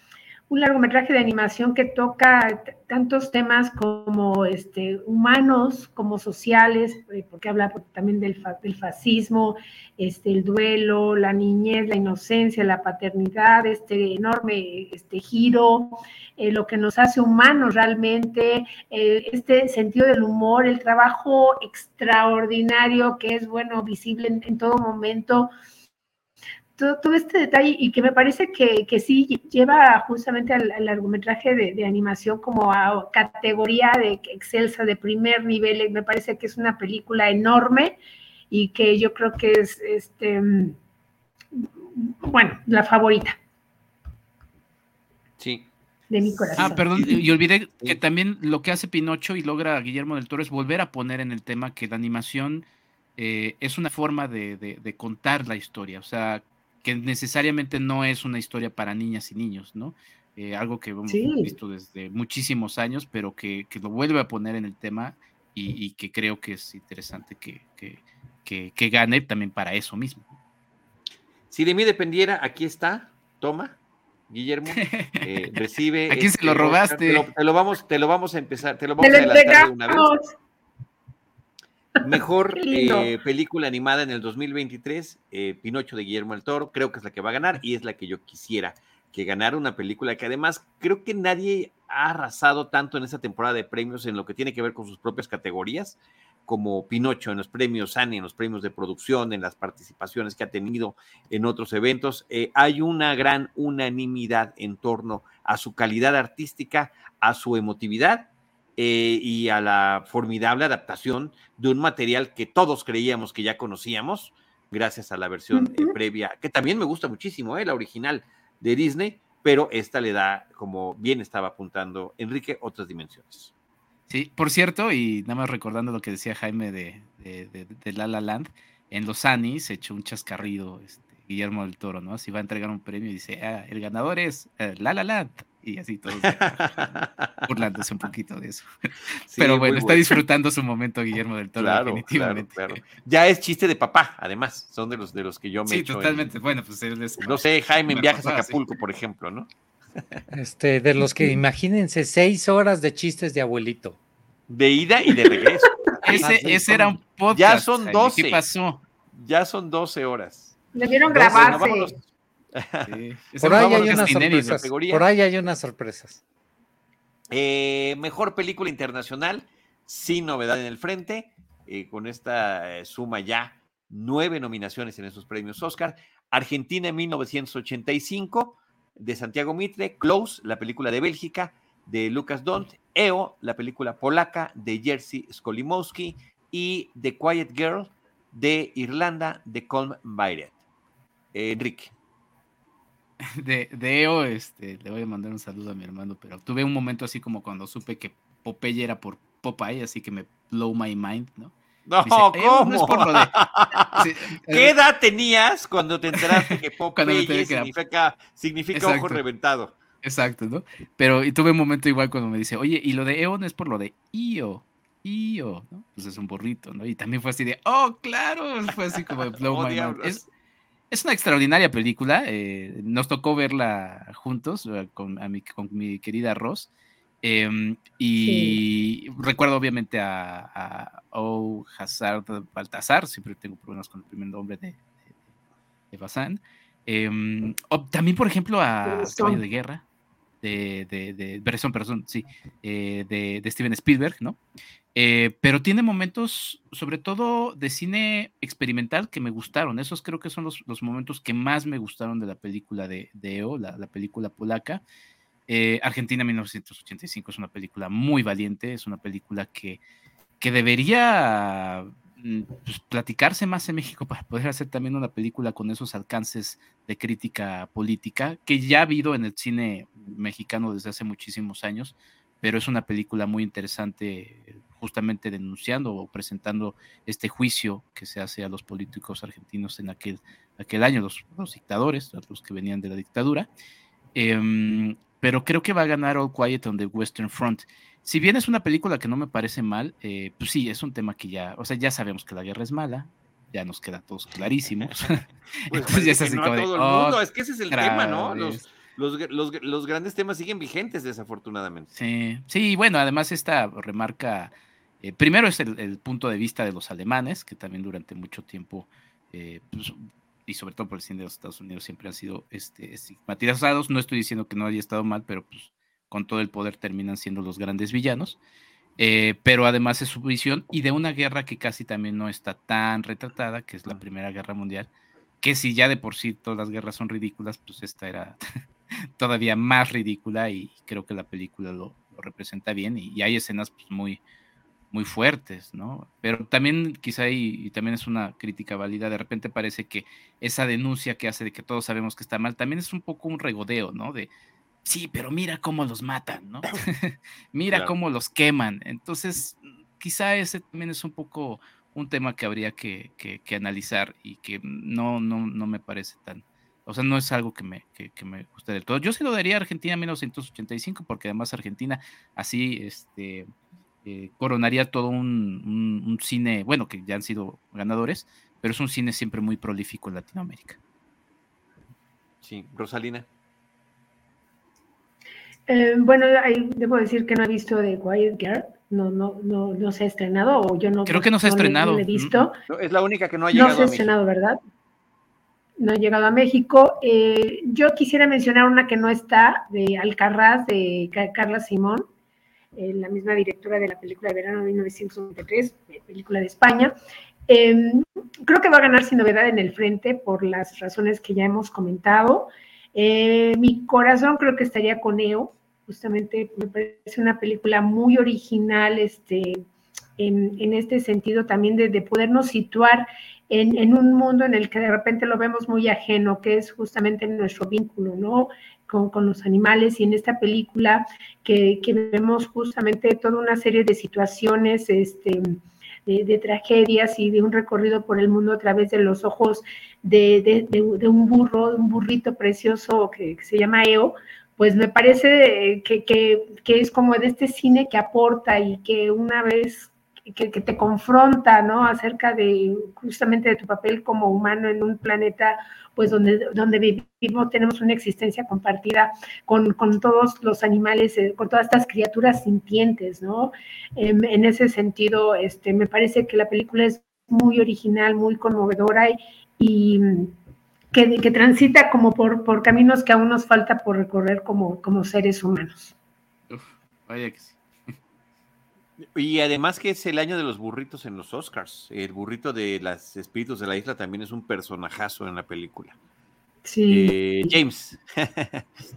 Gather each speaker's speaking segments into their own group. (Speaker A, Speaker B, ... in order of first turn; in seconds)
Speaker A: 0.5-25.5, 26.8-38.0, 38.5-40.8, 41.5-43.4, 46.1-47.2, 61.1-61.5, 79.0-80.2, 82.0-83.1, 115.5-115.9, 151.0-151.4, 160.7-161.9, 228.2-228.6, 238.8-239.4, 375.7-382.5, 383.5-384.6, 385.8-392.0, 392.8-396.9, 397.5-409.6, 410.2-460.3, 460.9-465.9, 476.6-477.6
Speaker B: 45.4-45.7, 46.5-47.2, 71.5-73.8, 74.3-80.1, 82.0-123.5, 136.2-137.5, 139.3-140.2, 141.6-146.3, 147.2-149.5, 154.5-156.6, 157.3-158.4, 159.1-160.6, 161.1-165.0, 167.3-190.5, 191.3-191.9, 201.9-209.7, 219.4-220.3, 295.7-301.9, 372.4-373.2, 382.7-384.1, 469.1-475.9, 476.9-478.7
Speaker C: 46.5-52.6, 53.2-70.3, 74.8-75.5, 76.1-77.3, 124.1-138.7, 139.4-142.8, 145.7-148.6, 156.0-158.8, 162.9-164.6, 193.2-201.5, 202.0-203.3, 203.9-204.7, 206.3-207.7, 208.7-209.2, 210.0-220.2, 220.9-226.7, 227.2-234.8, 235.9-239.8, 240.4-244.4, 244.9-254.8, 255.5-259.8, 260.4-283.5, 284.1-298.6, 301.9-304.5, 305.0-318.4, 319.0-324.9, 325.4-328.4, 329.1-334.2, 334.9-344.3, 344.8-363.5, 364.0-370.8, 381.1-382.5, 466.5-467.9
Speaker D: 150.3-154.0, 156.2-157.0, 163.4-166.2